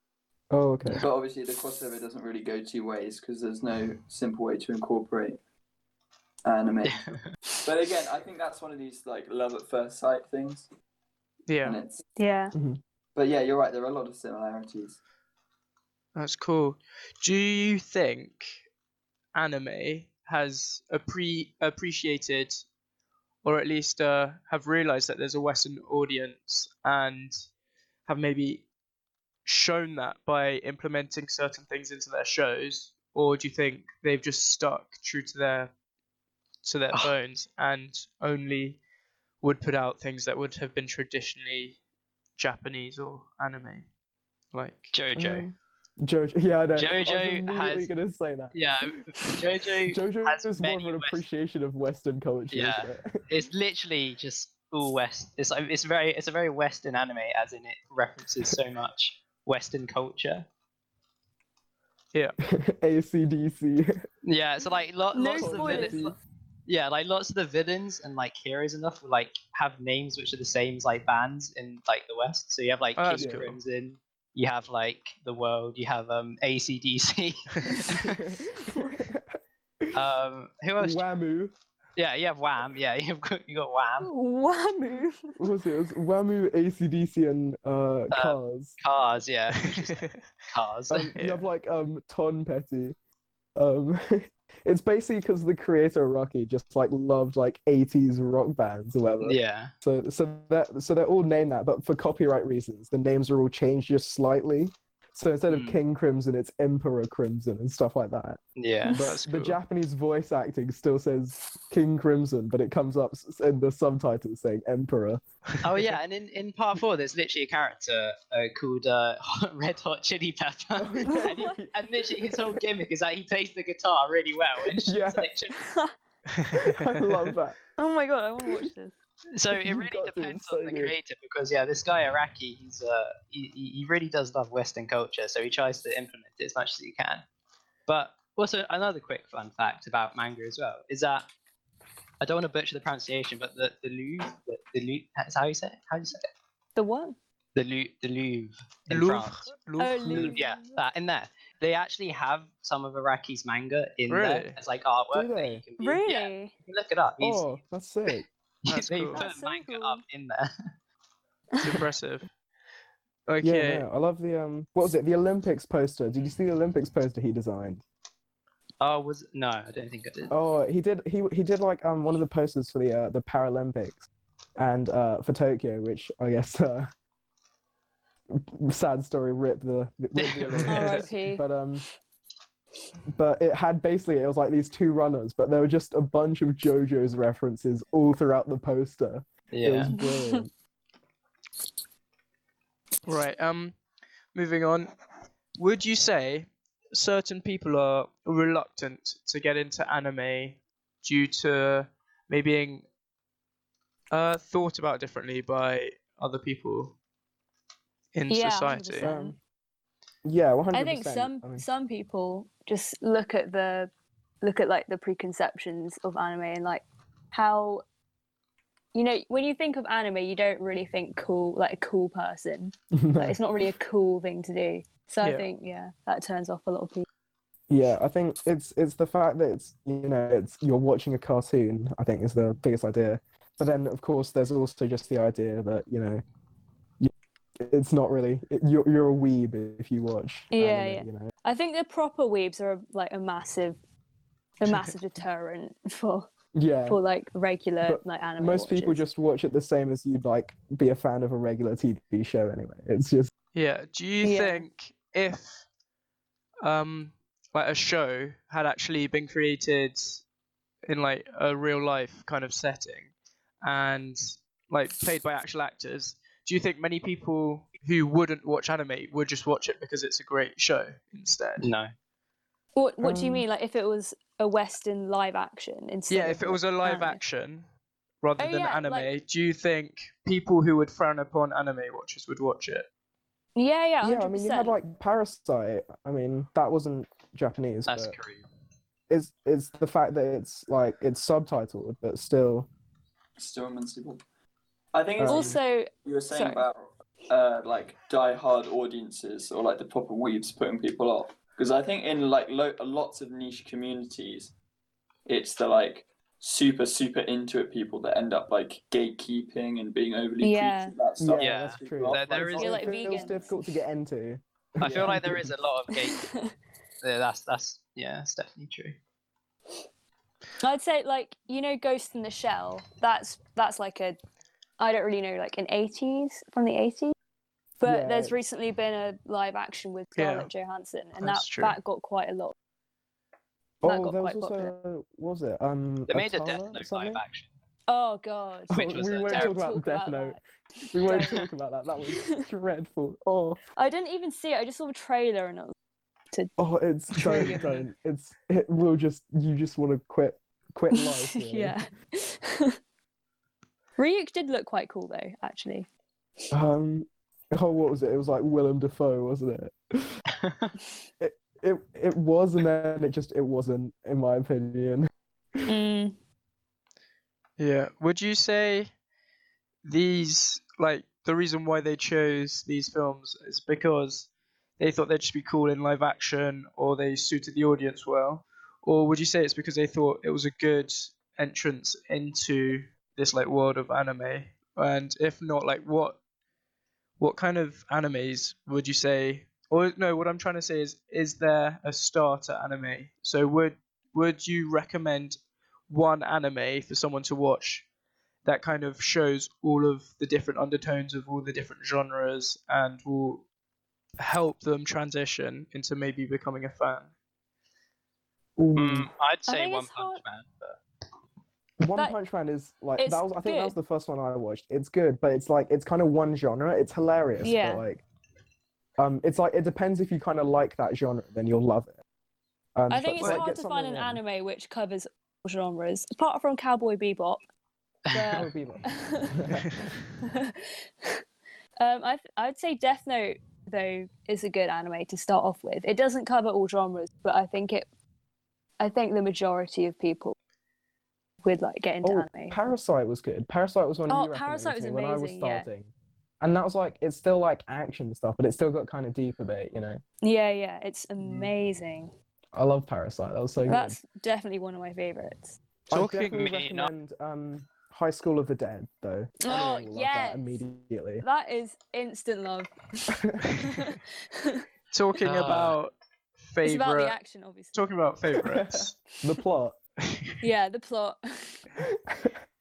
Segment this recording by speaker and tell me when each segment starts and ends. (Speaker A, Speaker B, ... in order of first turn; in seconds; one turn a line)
Speaker A: 0.5-1.1
Speaker B: 1.0-5.4
Speaker B: 6.4-7.1
Speaker C: 6.8-7.3
Speaker B: 7.6-10.7
Speaker D: 11.5-11.8
Speaker B: 11.6-12.0
Speaker E: 12.2-12.5
Speaker A: 12.5-12.8
Speaker B: 13.1-15.0
Speaker D: 16.1-18.6
Speaker D: 19.3-22.6
Speaker D: 23.4-27.4
Speaker D: 28.1-28.6
Speaker D: 29.4-35.7
Speaker D: 36.6-38.8
Speaker D: 39.4-41.8
Speaker D: 42.4-43.9
Speaker D: 44.5-44.9
Speaker C: 44.9-45.5
Speaker A: 45.1-48.5
Speaker C: 46.8-47.9
Speaker C: 48.5-51.2
Speaker A: 49.9-53.2
Speaker C: 52.5-60.5
Speaker A: 62.4-64.0
Speaker C: 64.2-66.1
Speaker E: 65.1-66.1
Speaker A: 65.3-66.2
Speaker C: 66.7-78.2
Speaker D: 73.0-73.6
Speaker A: 73.1-73.4
Speaker A: 77.9-79.2
Speaker C: 79.9-81.0
Speaker A: 80.8-81.5
Speaker C: 82.0-84.1
Speaker E: 84.0-85.4
Speaker A: 85.4-88.8
Speaker C: 88.1-91.1
Speaker D: 89.6-90.2
Speaker A: 90.9-92.9
Speaker D: 91.1-91.4
Speaker A: 93.5-115.2
Speaker C: 99.2-99.7
Speaker C: 105.5-105.8
Speaker C: 108.6-109.0
Speaker D: 109.0-109.6
Speaker C: 115.6-125.6
Speaker A: 120.8-121.7
Speaker E: 121.0-121.6
Speaker A: 124.8-125.3
Speaker E: 125.5-125.9
Speaker D: 126.3-126.9
Speaker A: 126.7-127.6
Speaker E: 127.7-128.9
Speaker C: 129.3-137.2
Speaker A: 129.6-130.9
Speaker C: 137.9-141.3
Speaker C: 142.2-146.3
Speaker E: 146.8-147.2
Speaker C: 147.5-149.5
Speaker D: 148.9-150.3
Speaker E: 149.8-150.8
Speaker C: 150.0-157.5
Speaker D: 154.1-154.6
Speaker A: 155.1-155.6
Speaker E: 155.8-156.5
Speaker A: 157.2-158.3
Speaker C: 158.7-160.7
Speaker D: 158.7-159.2
Speaker E: 159.1-160.0
Speaker E: 161.5-161.8
Speaker D: 161.6-162.3
Speaker D: 163.3-163.8
Speaker A: 163.4-167.8
Speaker C: 168.8-170.3
Speaker A: 170.3-176.9
Speaker A: 178.3-181.8
Speaker C: 180.2-181.0
Speaker E: 180.6-181.4
Speaker A: 183.1-190.5
Speaker C: 189.5-189.9
Speaker E: 189.9-190.4
Speaker D: 193.1-193.8
Speaker D: 194.3-194.9
Speaker D: 195.6-202.9
Speaker D: 204.1-206.9
Speaker D: 208.1-209.1
Speaker E: 208.3-209.3
Speaker A: 209.0-209.3
Speaker A: 210.2-211.6
Speaker E: 210.7-213.9
Speaker E: 214.4-217.8
Speaker E: 218.9-227.1
Speaker A: 222.9-223.4
Speaker D: 225.2-225.5
Speaker A: 227.7-236.2
Speaker A: 237.0-241.3
Speaker E: 240.5-243.8
Speaker E: 244.6-246.3
Speaker A: 246.5-247.0
Speaker E: 246.8-249.0
Speaker A: 247.8-253.3
Speaker D: 253.5-255.7
Speaker E: 254.2-254.7
Speaker D: 256.6-260.2
Speaker D: 260.9-263.1
Speaker D: 263.6-271.7
Speaker C: 271.6-271.9
Speaker E: 272.7-277.2
Speaker A: 273.0-273.4
Speaker D: 276.1-277.6
Speaker D: 278.2-282.9
Speaker E: 278.4-279.1
Speaker E: 283.6-284.8
Speaker A: 284.0-288.1
Speaker C: 287.9-288.4
Speaker A: 289.1-292.7
Speaker B: 293.4-294.2
Speaker B: 294.9-304.5
Speaker A: 295.2-295.6
Speaker E: 295.2-296.6
Speaker B: 305.2-313.3
Speaker E: 310.4-310.9
Speaker A: 311.2-315.5
Speaker C: 311.4-313.2
Speaker E: 312.6-313.6
Speaker C: 314.8-316.2
Speaker B: 314.8-315.2
Speaker E: 315.9-316.5
Speaker C: 317.0-319.0
Speaker E: 320.6-324.2
Speaker E: 324.8-327.1
Speaker E: 327.8-332.5
Speaker A: 327.8-328.3
Speaker D: 330.1-330.5
Speaker D: 331.2-331.8
Speaker A: 333.8-337.2
Speaker E: 333.8-334.7
Speaker C: 336.1-337.5
Speaker E: 337.9-341.4
Speaker A: 338.7-340.4
Speaker C: 338.7-339.6
Speaker A: 340.9-343.6
Speaker E: 342.0-342.5
Speaker E: 343.8-345.7
Speaker A: 346.6-351.8
Speaker E: 347.1-347.8
Speaker E: 350.9-352.8
Speaker E: 354.0-355.9
Speaker A: 356.5-360.2
Speaker C: 360.4-360.7
Speaker A: 361.2-365.1
Speaker E: 365.6-366.1
Speaker D: 367.6-368.9
Speaker D: 369.8-386.2
Speaker D: 387.2-397.9
Speaker D: 398.4-403.4
Speaker D: 404.2-407.1
Speaker A: 408.6-409.1
Speaker C: 408.8-410.8
Speaker E: 409.5-410.2
Speaker A: 411.8-418.0
Speaker E: 413.0-413.7
Speaker E: 417.4-417.8
Speaker A: 419.0-422.0
Speaker A: 422.7-424.2
Speaker E: 422.9-427.4
Speaker C: 428.1-428.5
Speaker E: 428.1-429.5
Speaker A: 428.3-429.8
Speaker E: 430.2-431.2
Speaker E: 431.8-437.9
Speaker E: 438.8-440.3
Speaker E: 441.4-442.6
Speaker A: 442.0-450.0
Speaker E: 444.1-445.7
Speaker E: 450.2-452.1
Speaker A: 452.5-454.0
Speaker E: 453.6-455.6
Speaker A: 455.9-461.2
Speaker D: 455.9-456.4
Speaker C: 456.3-456.9
Speaker E: 459.4-460.6
Speaker E: 461.2-464.6
Speaker D: 464.9-467.2
Speaker C: 465.2-465.8
Speaker E: 466.6-467.8
Speaker D: 467.7-469.0
Speaker A: 468.4-469.8
Speaker E: 470.4-471.6
Speaker A: 471.8-472.4